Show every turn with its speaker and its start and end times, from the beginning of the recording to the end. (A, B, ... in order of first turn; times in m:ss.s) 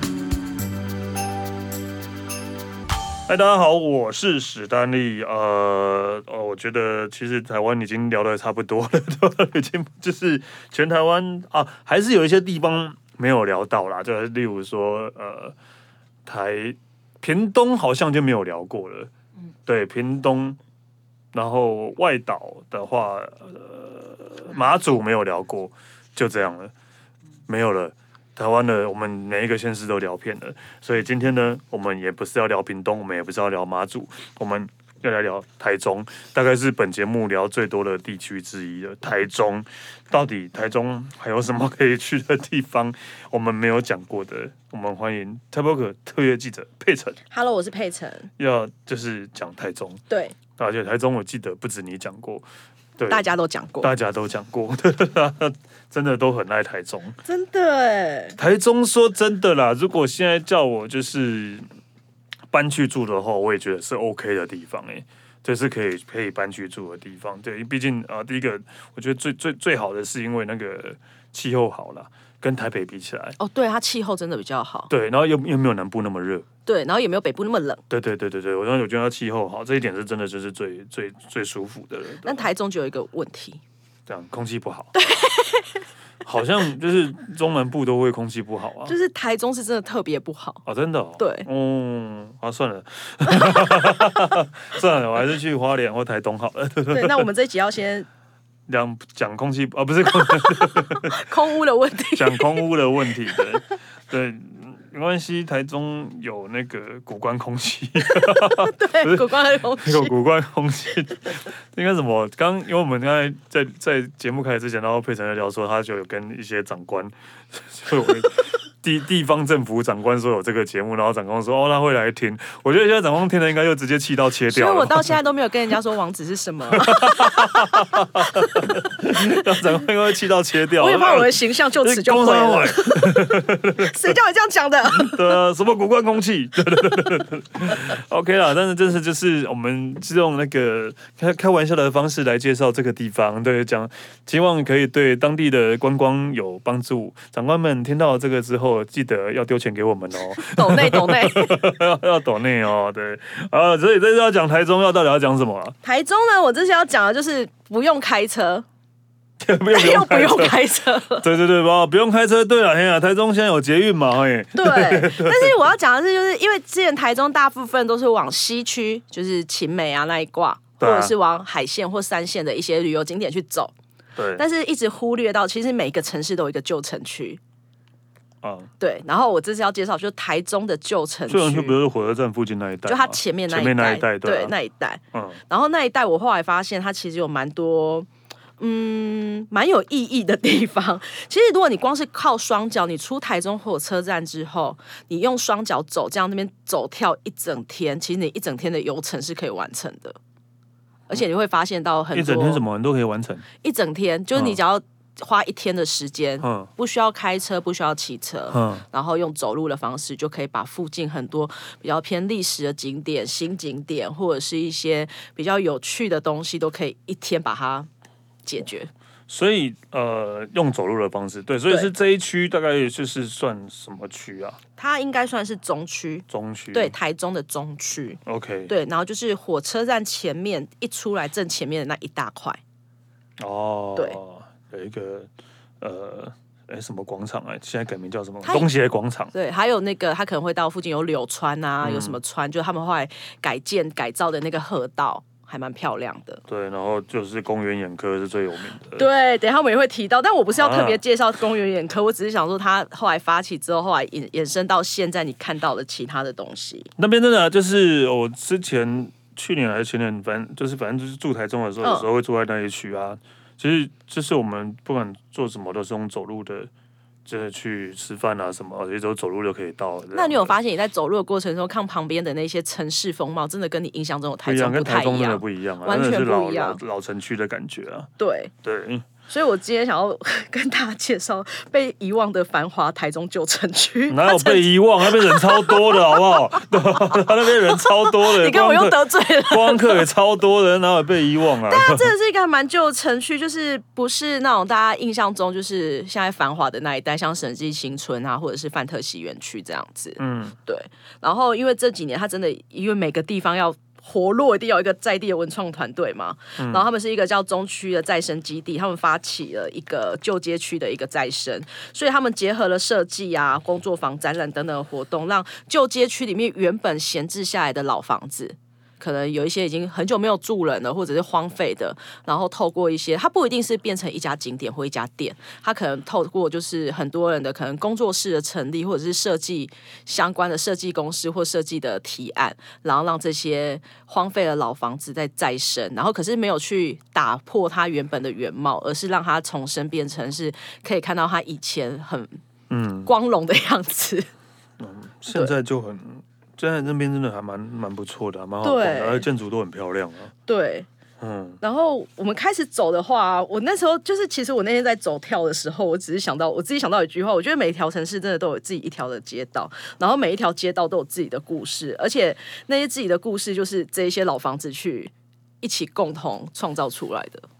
0:03.3-0:15.5 A
0:16.2-0:19.1 A
0:19.6-0:20.6 A
0:21.3-0:26.7 A
0:27.5-0:47.2 A
0:47.3-0:48.3 B
0:48.4-0:50.0 A
0:50.1-0:50.3 B
0:50.6-0:52.4 A
0:53.0-0:53.2 A
0:53.1-0:53.9 B
0:53.8-0:57.2 A
0:57.2-0:58.4 B
0:58.4-1:01.6 A
1:02.5-1:13.4 A
1:13.4-1:14.9 B
1:14.9-1:16.4 A
1:16.6-1:17.8 B
1:17.9-1:22.5 A
1:22.2-1:23.6 B
1:24.1-1:24.9 A
1:24.9-1:25.8 B
1:26.2-1:28.9 A
1:28.8-1:30.6 B
1:30.6-1:37.3 A
1:31.2-1:31.5 B
1:33.3-1:33.9 B
1:36.9-1:38.1 B
1:38.7-1:41.2 A
1:40.2-1:42.6 B
1:42.1-2:05.1 A
1:48.0-1:50.1 B
2:04.5-2:09.4 B
2:06.7-2:14.1 A
2:10.8-2:15.4 B
2:14.9-2:35.8 A
2:30.4-2:31.6 B
2:35.8-2:38.6 B
2:39.4-2:40.6 A
2:39.7-2:41.3 B
2:41.2-2:45.6 A
2:44.5-2:53.7 B
2:50.8-2:51.1 A
2:54.2-2:54.4 A
2:54.4-2:57.4 B
2:58.4-2:58.7 A
2:58.8-3:01.7 B
3:01.3-3:04.5 A
3:02.8-3:08.1 B
3:05.1-3:05.4 A
3:08.6-3:20.2 B
3:21.1-3:22.6 B
3:22.1-3:23.4 A
3:23.6-3:37.9 B
3:26.4-3:26.7 A
3:28.5-3:28.8 A
3:38.4-3:38.9 B
3:39.3-3:44.6 A
3:44.8-3:52.6 B
3:46.3-3:46.9 A
3:48.2-3:48.7 A
3:53.4-3:59.3 A
3:59.3-4:06.4 B
4:01.8-4:02.2 A
4:06.5-4:09.0 A
4:09.0-4:16.9 B
4:10.6-4:11.0 A
4:17.0-4:26.7 A
4:21.8-4:22.1 B
4:27.2-4:30.5 A
4:30.1-4:36.8 B
4:34.4-4:38.1 A
4:38.2-4:38.5 B
4:38.6-4:39.1 A
4:39.3-4:50.0 B
4:44.1-4:52.1 A
4:51.7-5:42.3 B
5:00.2-5:00.6 A
5:06.6-5:06.8 A
5:42.7-5:43.1 A
5:43.0-5:44.3 B
5:44.8-5:50.3 A
5:48.6-5:49.2 B
5:50.5-5:50.9 B
5:51.2-5:51.6 A
5:51.6-6:07.4 B